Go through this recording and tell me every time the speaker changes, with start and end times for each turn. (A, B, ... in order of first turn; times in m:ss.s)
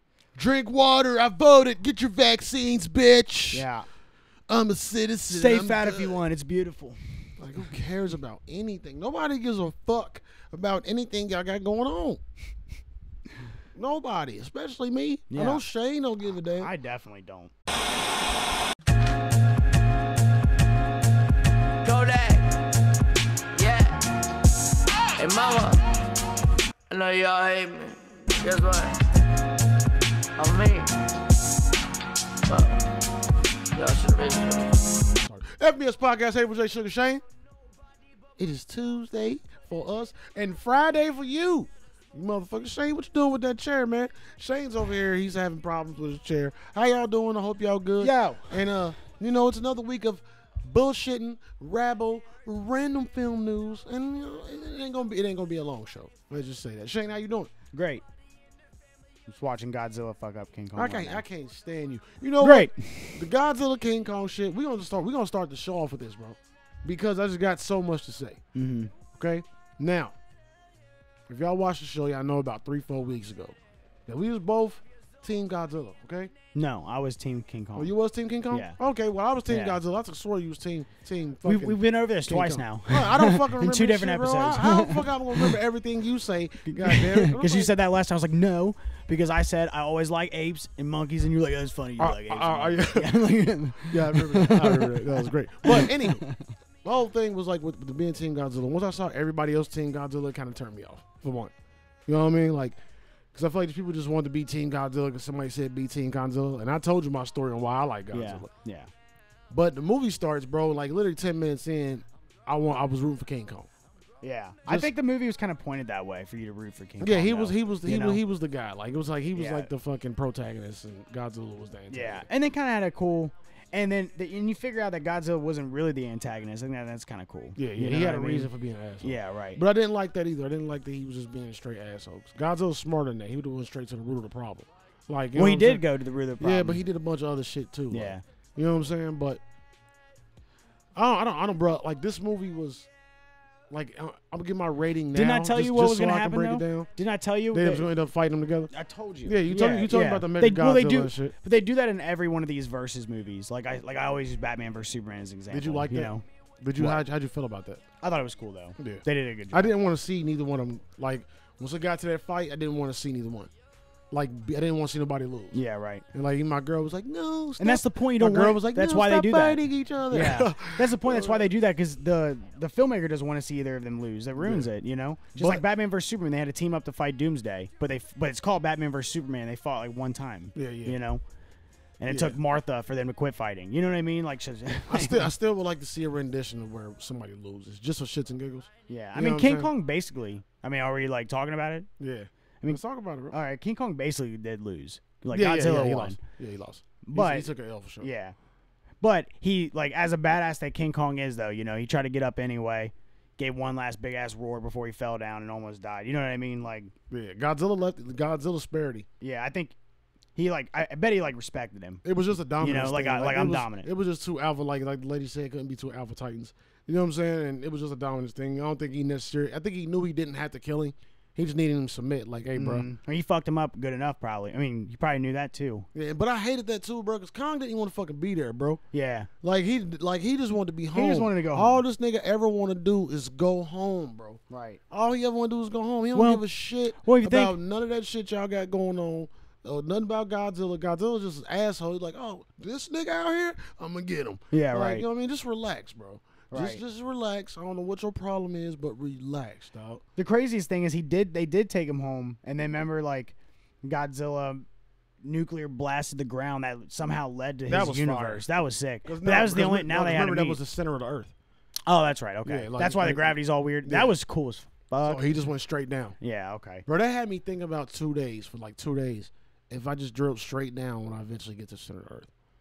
0:00.3-0:03.7 A
0:03.5-0:03.9 B
0:04.5-0:06.2 A
0:05.3-0:07.7 B
0:07.4-0:12.2 A
0:13.7-0:16.7 A
0:15.3-0:15.6 B
0:16.5-0:17.5 B
0:21.8-0:22.7 C
0:23.5-0:24.0 C
0:25.2-0:25.8 C
0:26.9-0:29.0 C
0:30.4-0:30.9 C
0:32.5-0:32.8 C
0:33.7-0:34.7 C
0:35.2-0:37.2 A
0:38.4-0:57.5 A
0:48.0-0:48.6 B
0:57.7-0:58.0 B
0:59.3-1:01.2 B
1:00.7-1:08.4 A
1:02.4-1:03.2 B
1:08.5-1:08.9 B
1:09.1-1:10.1 A
1:11.3-1:16.3 A
1:16.5-1:17.9 B
1:17.7-1:27.7 A
1:18.5-1:18.8 B
1:19.5-1:19.8 B
1:21.4-1:25.6 B
1:26.7-1:36.5 B
1:32.0-1:33.2 A
1:33.8-1:36.3 A
1:36.8-1:41.5 A
1:42.0-1:42.8 A
1:43.3-1:48.5 A
1:48.1-1:48.9 B
1:49.5-1:53.7 A
1:54.2-1:58.2 B
1:57.0-2:02.3 A
1:59.3-1:59.7 B
2:01.9-2:08.5 B
2:07.6-2:15.8 A
2:09.0-2:09.6 B
2:15.3-2:16.8 B
2:16.4-2:19.4 A
2:17.9-2:18.2 B
2:21.0-2:22.9 A
2:23.7-2:26.9 A
2:25.1-2:27.9 B
2:27.5-2:28.7 A
2:28.7-2:36.2 B
2:29.2-2:31.3 A
2:35.5-2:37.8 A
2:36.8-2:37.0 B
2:38.0-2:39.8 B
2:38.8-2:43.5 A
2:44.1-2:45.6 A
2:45.5-2:46.0 B
2:46.1-2:51.5 A
2:47.6-3:01.2 B
2:54.4-2:54.7 A
2:55.3-2:55.6 A
3:00.5-3:01.0 A
3:02.0-3:05.3 B
3:02.1-3:02.4 A
3:04.9-3:09.7 A
3:08.9-3:11.9 B
3:12.0-3:13.4 A
3:13.3-3:16.2 B
3:15.3-3:18.1 A
3:17.0-3:18.3 B
3:19.0-3:26.9 B
3:27.1-3:29.1 A
3:29.2-3:29.8 B
3:30.4-3:32.0 B
3:32.0-3:42.9 A
3:32.6-3:33.9 B
3:42.5-3:45.9 B
3:45.9-3:48.8 A
3:48.9-3:49.3 B
3:49.4-4:10.0 A
3:50.9-3:51.8 B
3:54.5-3:54.8 B
3:56.1-3:56.4 B
3:57.0-3:57.5 B
4:04.5-4:05.0 B
4:06.5-4:06.8 B
4:10.2-4:14.6 B
4:15.2-4:20.6 B
4:17.7-4:18.5 A
4:19.0-4:21.3 A
4:21.9-4:25.2 B
4:22.4-4:24.1 A
4:25.0-4:26.2 A
4:26.2-4:26.8 B
4:26.8-4:32.3 A